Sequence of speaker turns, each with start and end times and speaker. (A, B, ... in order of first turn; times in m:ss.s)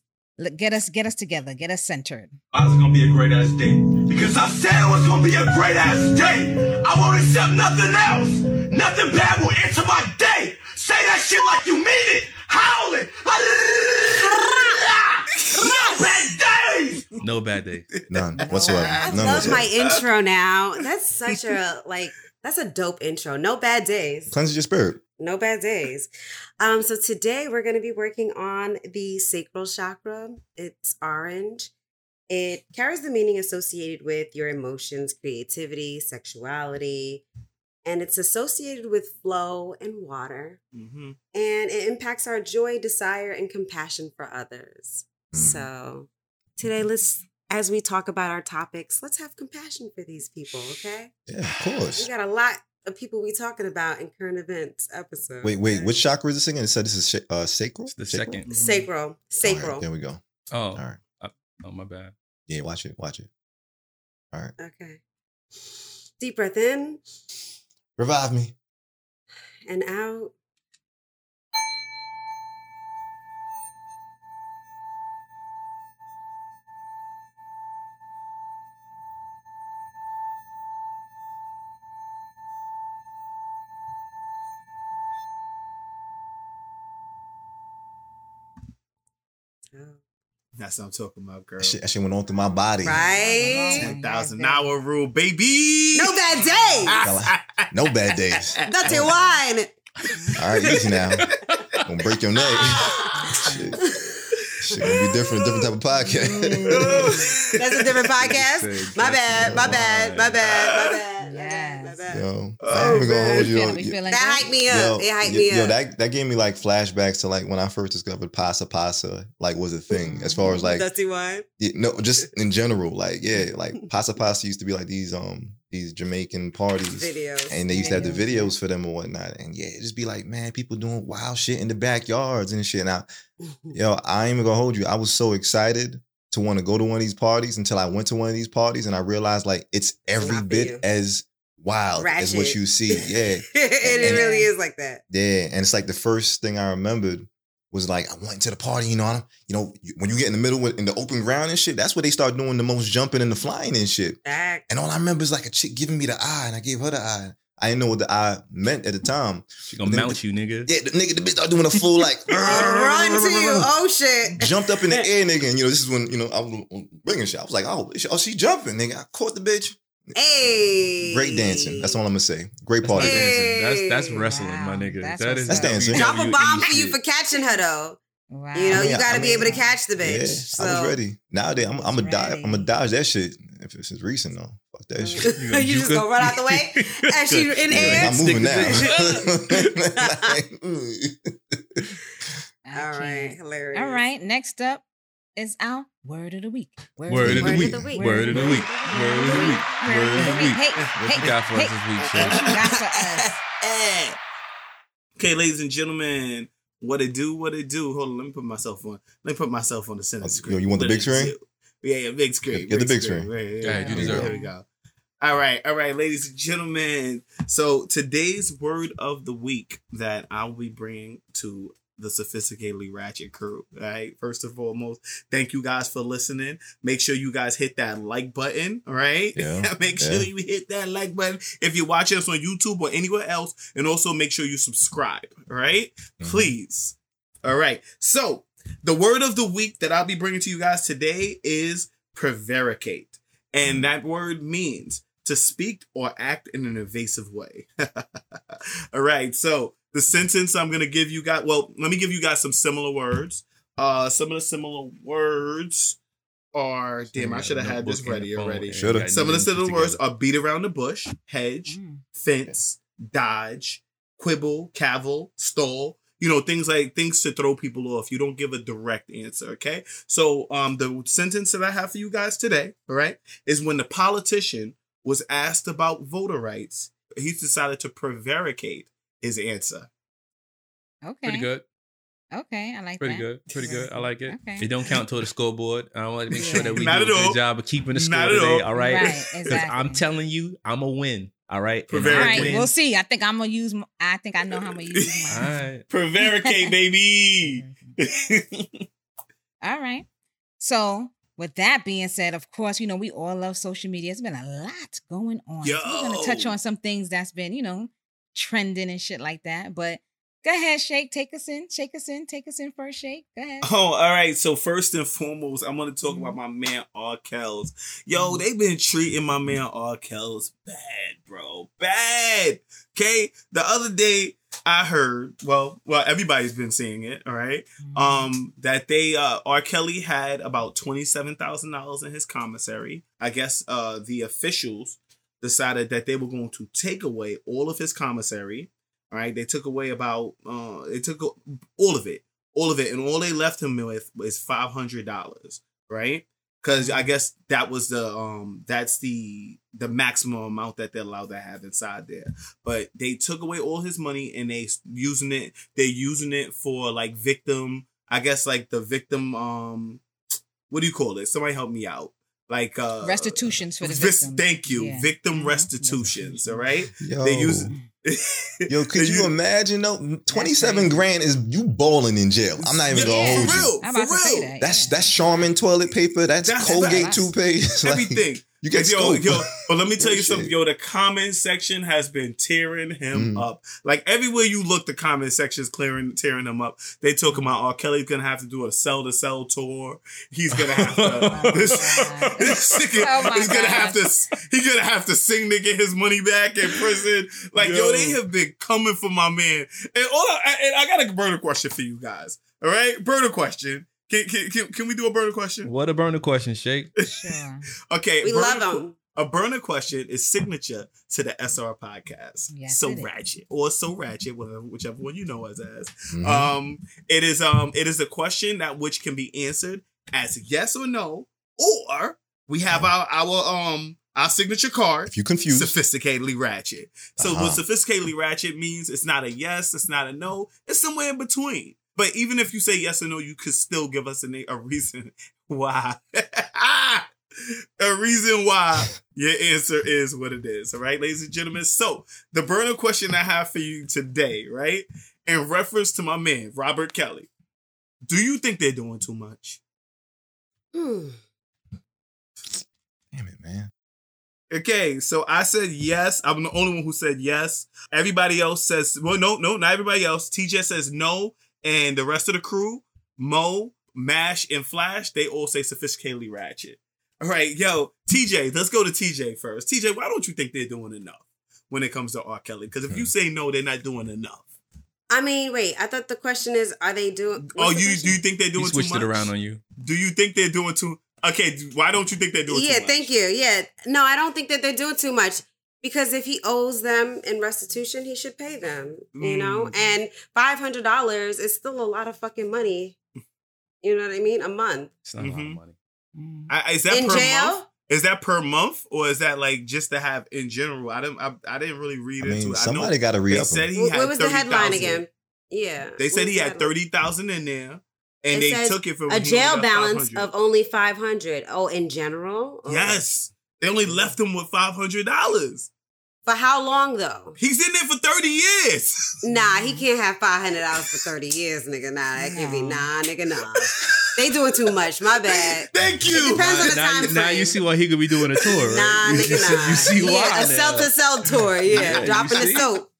0:00.4-0:02.3 A
0:02.5-0:17.0 B
0:17.2-0:17.8 C
0:18.1-0:19.7 D
0:18.4-0:19.4 A
0:18.6-0:20.0 E
0:19.0-0:24.3 F
0:24.3-0:25.0 D
0:25.2-0:31.7 F
0:32.3-0:37.2 F
0:37.8-0:40.6 F
0:40.7-0:41.2 E
0:41.3-0:51.1 F
0:45.3-0:45.7 D
0:51.3-0:52.1 D
0:51.9-0:55.9 F
0:55.4-0:58.4 D
0:57.9-0:58.5 C
0:58.4-0:58.9 E
0:58.5-0:59.8 F
0:59.4-1:01.0 D
1:00.5-1:02.1 C
1:02.5-1:03.3 D
1:04.6-1:05.0 F
1:06.2-1:07.0 F
1:08.0-1:08.5 D
1:09.6-1:10.3 F
1:30.6-1:31.8 E
1:31.6-1:33.0 D
1:32.8-1:33.9 F
1:32.9-1:34.7 A
1:33.7-1:39.1 E
1:35.9-1:37.0 F
1:37.0-1:39.1 D
1:38.7-1:39.8 F
1:40.4-1:41.3 D
1:40.6-1:41.0 F
1:40.7-1:41.9 E
1:41.8-1:42.9 D
1:42.7-1:43.1 E
1:42.8-1:43.1 F
1:43.1-1:43.7 A
1:43.5-1:43.8 D
1:43.8-1:44.1 F
1:44.4-1:45.4 E
1:44.6-1:47.1 D
1:46.6-1:48.0 E
1:46.8-1:53.4 F
1:48.2-1:50.4 C
1:49.3-1:49.8 D
1:50.4-1:51.0 E
1:51.2-1:52.0 A
1:52.1-1:54.0 D
1:52.6-1:53.4 E
1:53.3-1:54.5 A
1:54.1-1:55.8 F
1:54.6-2:00.9 D
1:59.9-2:00.6 A
2:00.4-2:01.5 F
2:01.6-2:13.1 D
2:06.9-2:08.1 F
2:07.7-2:08.5 A
2:13.4-2:13.8 F
2:13.7-2:24.3 D
2:20.2-2:20.8 F
2:22.0-2:22.6 F
2:23.5-2:25.0 F
2:24.0-2:24.5 A
2:25.1-2:43.7 D
2:34.2-2:34.6 F
2:39.7-2:40.7 C
2:42.4-2:45.0 F
2:44.4-2:53.3 D
2:50.2-2:52.0 F
2:52.8-2:57.0 C
2:53.0-2:54.2 F
2:54.3-2:55.8 A
2:55.5-2:56.1 D
2:55.9-2:58.0 F
2:58.3-2:59.7 A
2:58.5-3:01.0 F
2:58.7-3:05.3 D
3:01.9-3:02.7 A
3:05.0-3:10.3 F
3:05.3-3:09.3 C
3:07.7-3:11.9 D
3:12.6-3:14.8 A
3:12.7-3:14.0 F
3:15.3-3:23.3 A
3:17.1-3:22.6 C
3:17.2-3:17.9 D
3:17.4-3:19.6 F
3:20.2-3:21.3 E
3:22.0-3:22.7 E
3:23.7-3:24.1 E
3:25.2-3:34.6 E
3:30.2-3:31.3 D
3:32.5-3:33.3 D
3:33.6-3:34.3 C
3:33.7-3:34.5 A
3:33.9-3:34.2 D
3:35.2-4:16.0 E
3:49.4-3:50.3 D
3:56.2-3:56.5 D
4:16.5-4:39.9 E
4:17.1-4:20.0 C
4:18.8-4:19.2 D
4:21.6-4:22.0 A
4:41.0-4:41.5 A
4:41.2-4:41.6 C
4:42.3-4:44.7 A
4:43.0-4:52.7 C
4:43.6-4:43.8 E
4:46.3-4:47.4 E
4:46.4-4:46.9 A
4:47.9-4:49.6 E
4:48.7-4:50.0 A
4:51.9-4:52.6 E
4:52.0-4:55.6 A
4:54.5-4:58.8 E
4:55.3-4:55.8 C
4:56.2-4:56.7 A
4:57.4-4:57.9 A
4:59.6-5:00.0 A
5:00.6-5:13.7 A
5:05.6-5:06.6 E
5:13.6-6:00.0 E
5:16.0-5:16.4 A
5:18.1-5:18.4 A
5:27.8-5:28.3 A
5:46.8-5:47.1 A
6:00.7-6:09.3 E
6:03.0-6:06.7 A
6:07.0-6:07.7 D
6:08.7-6:13.8 D
6:10.3-6:11.0 A
6:12.6-6:14.5 E
6:12.9-6:15.4 A
6:14.6-6:20.5 D
6:16.4-6:17.2 E
6:16.6-6:17.3 A
6:17.8-6:45.7 E
6:23.1-6:23.4 D
6:30.5-6:33.3 C
6:31.0-6:34.3 A
6:37.6-6:38.2 C
6:45.6-6:46.9 C
6:47.0-6:47.3 E
6:47.0-6:47.6 A
6:47.9-7:17.1 E
6:48.2-6:49.0 F
6:52.5-6:53.1 A
6:56.1-6:56.5 D
7:05.1-7:05.8 D
7:07.2-7:07.6 D
7:17.8-7:27.3 E
7:28.0-7:29.6 E
7:30.7-7:31.2 F
7:33.1-7:33.7 D
7:34.5-7:54.5 E
7:55.1-7:58.2 F
7:57.4-8:03.1 E
7:58.6-7:59.6 C
8:02.5-8:13.0 F
8:09.1-8:09.7 E
8:13.8-8:14.9 F
8:15.0-8:15.7 C
8:15.2-8:15.6 E
8:16.2-8:16.5 A
8:16.5-8:25.0 E
8:16.9-8:17.7 F
8:22.2-8:23.7 D
8:23.7-8:26.7 F
8:26.0-8:30.3 E
8:28.3-8:33.0 F
8:32.7-8:35.7 E
8:33.9-8:34.1 F
8:36.2-8:37.4 F
8:37.4-8:39.2 E
8:39.2-8:47.6 F
8:39.3-8:39.8 A
8:42.2-8:42.9 A
8:43.5-8:44.2 E
8:45.2-8:47.2 E
8:46.2-8:50.9 C
8:48.3-8:48.6 E
8:48.6-8:52.9 F
8:49.3-8:49.5 E
8:51.7-8:52.7 C
8:51.7-8:52.6 E